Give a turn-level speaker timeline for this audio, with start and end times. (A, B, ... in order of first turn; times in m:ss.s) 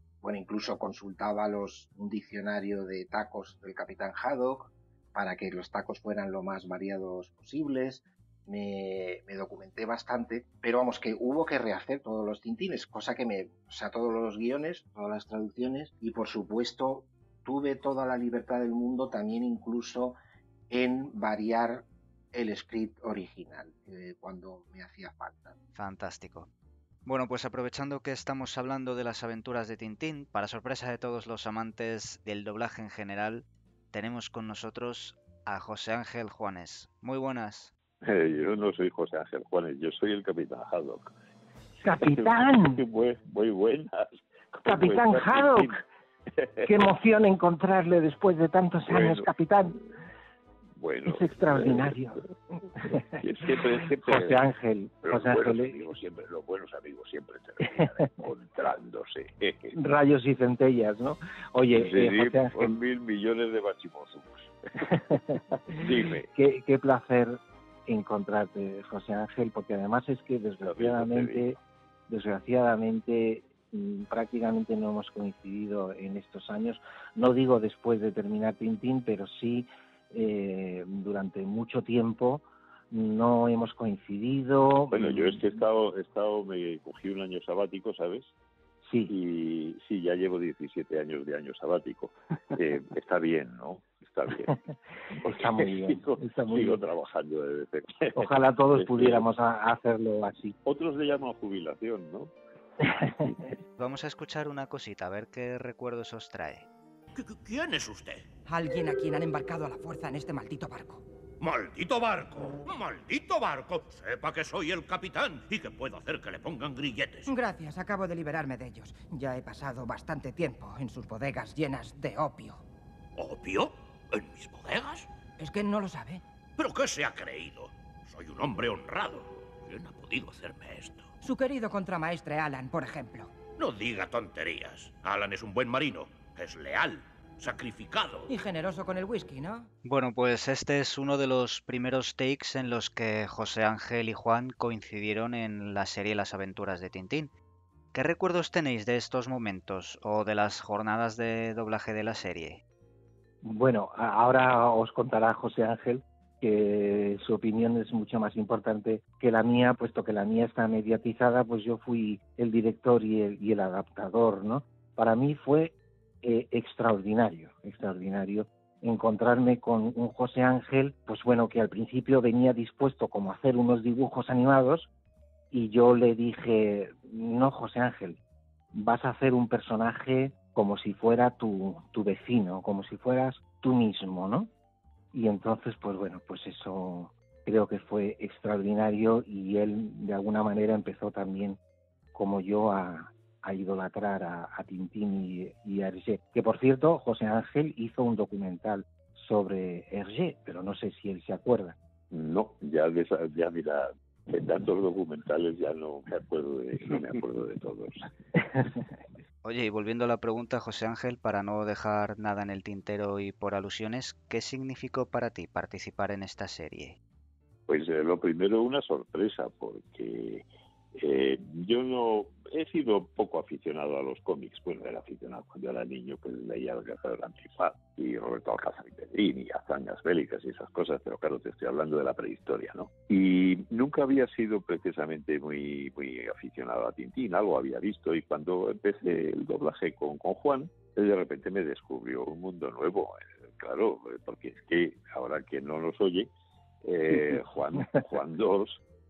0:00.2-0:20.2 A
0:20.7-0:25.6 A
0:25.8-0:26.5 B
0:27.1-0:37.7 B
0:38.0-0:41.1 C
0:41.9-0:42.8 D
0:42.0-0:45.8 C
0:44.7-0:45.7 D
0:46.4-0:46.7 C
0:46.7-0:49.8 D
0:48.9-0:49.3 C
0:50.8-0:52.0 C
0:51.1-0:52.2 D
0:52.7-0:55.8 D
0:53.1-0:54.5 C
0:55.0-0:59.8 C
0:59.7-1:02.7 D
1:01.7-1:04.6 C
1:04.8-1:11.6 D
1:05.7-1:06.3 C
1:10.6-1:11.6 C
1:12.1-1:25.4 D
1:24.9-1:28.3 C
1:28.9-1:29.2 D
1:29.1-1:34.6 C
1:34.5-1:36.8 D
1:35.2-1:39.3 C
1:38.2-1:40.6 D
1:40.6-1:43.4 C
1:42.8-1:43.5 D
1:43.8-1:46.7 B
1:47.2-1:48.3 E
1:48.5-1:51.0 F
1:51.4-1:57.3 E
1:57.3-2:02.6 F
2:03.2-2:05.1 E
2:05.4-2:06.2 F
2:06.6-2:11.1 E
2:11.2-2:13.4 F
2:13.6-2:18.3 E
2:18.3-2:19.7 F
2:19.8-2:27.3 B
2:27.9-2:32.6 B
2:33.4-2:54.9 D
2:55.5-2:58.2 D
2:58.7-3:04.5 D
3:05.1-3:11.6 D
3:12.1-3:21.8 D
3:22.1-3:28.1 C
3:28.4-3:28.8 D
3:29.4-3:37.0 B
3:37.7-4:06.3 C
4:06.8-4:08.8 C